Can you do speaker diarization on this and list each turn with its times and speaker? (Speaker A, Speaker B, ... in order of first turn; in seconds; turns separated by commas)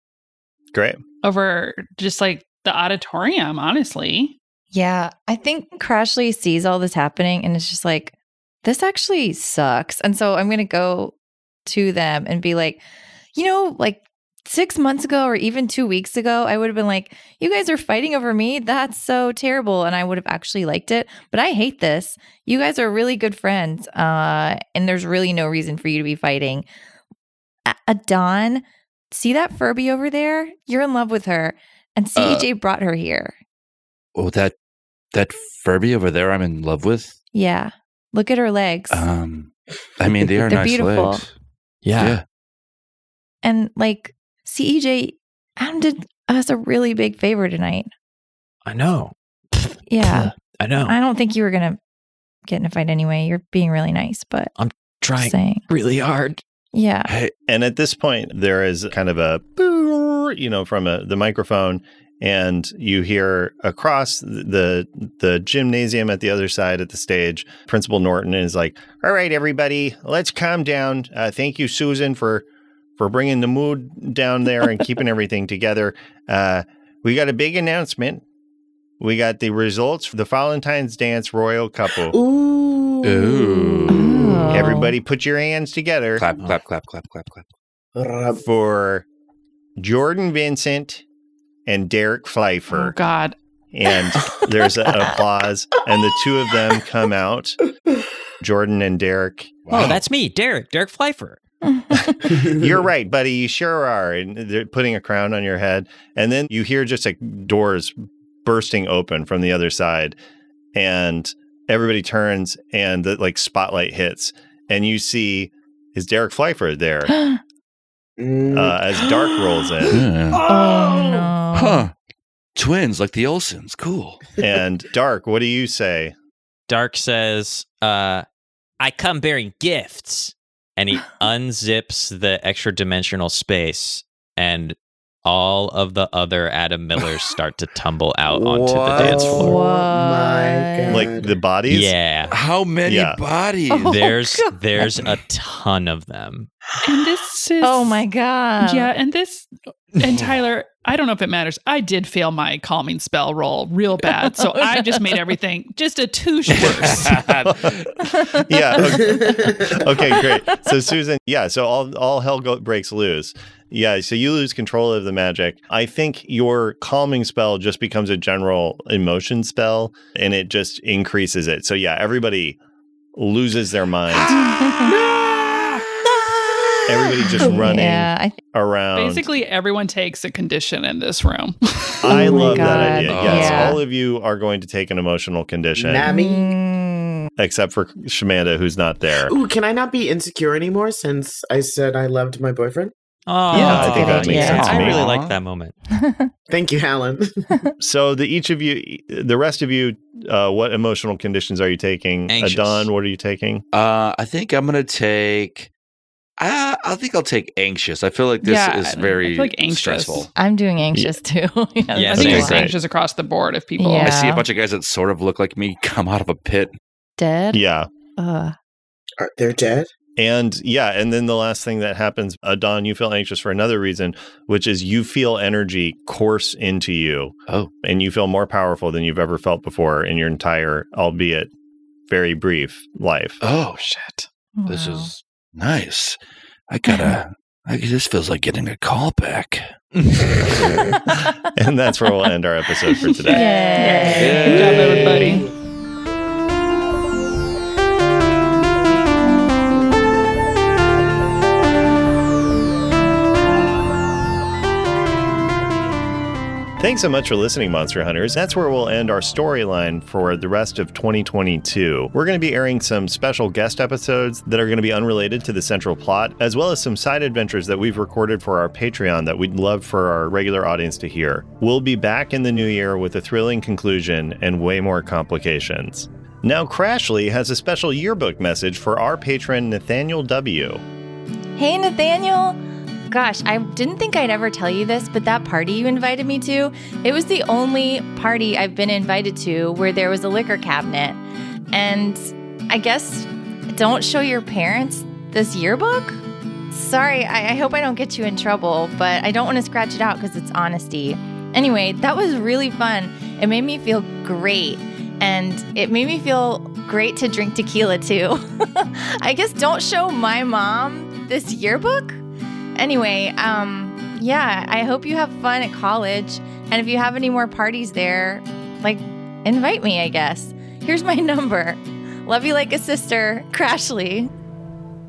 Speaker A: 0.7-1.0, Speaker B: 1.2-4.4, Speaker C: 4.7-8.1, Speaker C: 8.6-11.2, Speaker C: 11.7-12.8, Speaker C: 13.3-26.7, Speaker C: 27.7-33.4, Speaker D: 32.2-32.5, Speaker D: 34.1-34.5, Speaker D: 35.1-37.2, Speaker C: 37.3-39.0, Speaker D: 38.9-41.3, Speaker C: 40.5-41.2, Speaker E: 41.8-42.2, Speaker D: 42.0-42.2, Speaker C: 43.4-47.9, Speaker E: 48.6-51.0, Speaker C: 49.9-50.3, Speaker C: 50.9-51.8, Speaker C: 52.5-54.5, Speaker E: 54.6-56.4, Speaker C: 55.2-55.6, Speaker C: 56.7-57.1, Speaker D: 57.1-57.3, Speaker A: 57.5-72.5, Speaker A: 73.0-78.2, Speaker A: 79.0-82.2, Speaker F: 82.1-84.2, Speaker D: 83.0-84.7, Speaker C: 83.8-84.9, Speaker A: 84.5-86.3, Speaker D: 86.2-87.5, Speaker F: 88.0-88.4, Speaker A: 88.3-89.1, Speaker A: 89.8-91.0, Speaker A: 91.7-93.0, Speaker B: 92.7-93.4, Speaker A: 93.7-97.6, Speaker A: 98.4-99.6, Speaker D: 99.7-100.0, Speaker E: 99.7-101.4, Speaker C: 101.6-102.2, Speaker A: 102.0-110.2, Speaker F: 102.3-102.8, Speaker A: 110.8-117.1, Speaker C: 117.1-117.4, Speaker F: 118.2-119.5, Speaker A: 118.5-120.0, Speaker D: 119.9-120.5, Speaker C: 120.5-121.9, Speaker F: 120.5-121.3, Speaker D: 121.5-121.9, Speaker D: 122.6-124.2, Speaker A: 124.4-126.2, Speaker E: 126.7-128.3, Speaker E: 128.8-139.6, Speaker D: 138.3-139.4, Speaker F: 138.9-141.3, Speaker C: 139.3-141.1, Speaker A: 140.9-142.0, Speaker E: 141.7-142.3, Speaker D: 142.3-144.0, Speaker A: 142.9-143.2, Speaker C: 143.7-144.6, Speaker E: 143.9-146.5, Speaker B: 146.8-148.0, Speaker C: 147.6-148.9, Speaker B: 148.6-157.3, Speaker D: 150.0-150.3, Speaker C: 154.0-155.2, Speaker D: 156.5-158.1, Speaker C: 158.0-159.3, Speaker A: 158.4-172.6, Speaker F: 158.8-159.9, Speaker C: 160.1-160.7, Speaker A: 173.2-174.4, Speaker C: 174.4-174.9, Speaker D: 175.4-175.7, Speaker A: 176.9-179.3, Speaker C: 177.2-178.4, Speaker F: 177.2-177.8, Speaker B: 178.9-182.2, Speaker A: 182.0-186.1, Speaker C: 182.1-183.8, Speaker F: 182.1-183.1, Speaker D: 183.1-183.8, Speaker F: 185.8-186.5, Speaker C: 186.1-187.3, Speaker A: 187.4-189.3, Speaker F: 189.3-192.9, Speaker E: 193.3-195.8, Speaker C: 193.5-195.0, Speaker A: 193.5-195.1, Speaker D: 193.5-195.4, Speaker C: 195.9-196.3, Speaker F: 196.5-197.4, Speaker A: 197.8-203.6, Speaker E: 202.3-202.9, Speaker D: 203.7-205.7, Speaker D: 206.4-210.3, Speaker B: 208.4-210.3, Speaker C: 210.3-212.7, Speaker E: 211.9-212.7, Speaker B: 212.1-214.3, Speaker A: 212.2-212.7, Speaker C: 213.8-214.4, Speaker D: 214.0-216.7, Speaker C: 217.2-217.6, Speaker A: 217.5-217.9, Speaker C: 218.2-218.6, Speaker F: 219.2-219.9, Speaker A: 220.2-231.5, Speaker A: 232.1-233.4, Speaker D: 233.4-233.8, Speaker B: 233.8-234.3, Speaker C: 234.6-235.1, Speaker D: 234.7-236.2, Speaker D: 236.7-239.7, Speaker A: 241.4-243.5, Speaker B: 242.9-245.5, Speaker C: 243.3-245.1, Speaker D: 244.2-245.3, Speaker A: 256.8-280.8, Speaker C: 281.6-282.6, Speaker C: 283.1-291.2, Speaker C: 291.7-312.2, Speaker C: 312.8-324.3